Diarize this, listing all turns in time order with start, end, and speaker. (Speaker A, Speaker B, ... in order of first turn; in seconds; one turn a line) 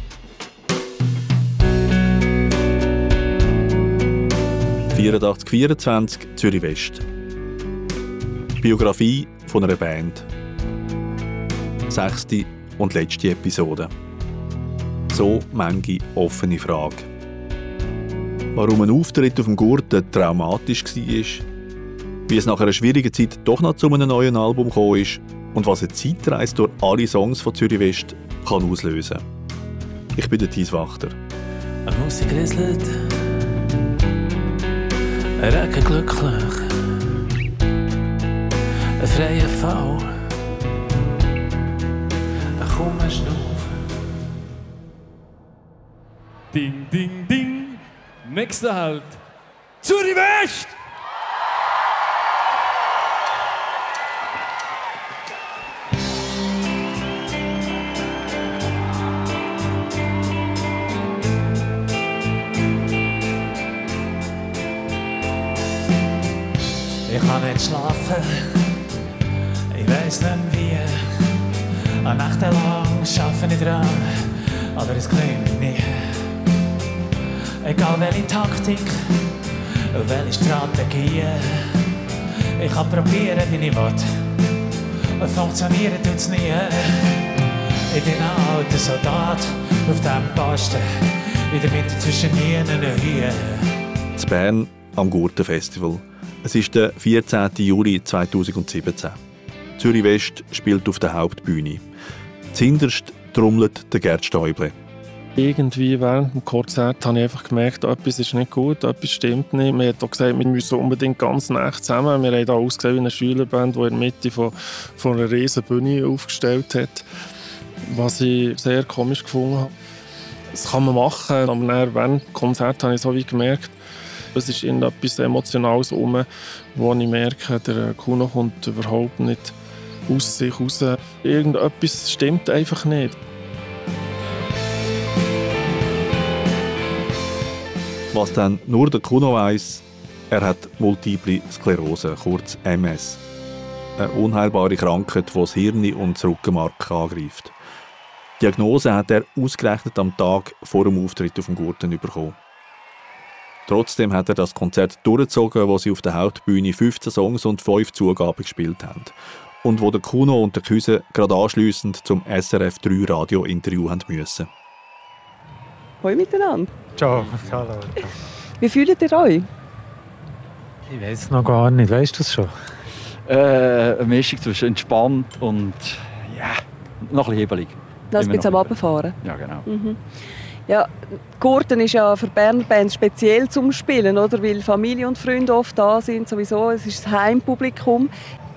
Speaker A: 4.9-7.0
Speaker A: 8.6-10.3
Speaker A: 11.9-13.9
Speaker A: 15.1-17.1
Speaker A: 18.6-21.4
Speaker A: 22.3-29.2
Speaker A: 30.2-31.2
Speaker B: 31.9-33.3
Speaker B: 35.4-37.0
Speaker B: 39.0-40.3
Speaker B: 42.6-43.9
Speaker C: 46.5-49.2
Speaker C: 49.8-50.7
Speaker B: 67.1-68.7
Speaker B: 69.7-71.4
Speaker B: 72.0-76.3
Speaker B: 77.6-79.4
Speaker B: 79.9-81.9
Speaker B: 82.6-84.3
Speaker B: 85.2-87.3
Speaker B: 87.9-93.8
Speaker A: 94.2-99.2
Speaker A: 99.8-101.8
Speaker A: 102.5-104.8
Speaker D: 105.4-117.0
Speaker D: 117.9-119.7
Speaker D: 120.5-123.8
Speaker D: 124.3-129.6
Speaker D: 130.1-133.2
Speaker A: 138.1-143.2
Speaker A: 144.0-147.5
Speaker A: 148.4-152.4
Speaker A: 153.7-164.5
Speaker E: 166.0-166.7
Speaker F: 167.0-168.2
Speaker E: 168.6-169.5
Speaker F: 170.9-172.5
Speaker G: 173.3-179.7
Speaker E: 178.1-179.2
Speaker E: 179.7-180.0
Speaker E: 180.7-188.1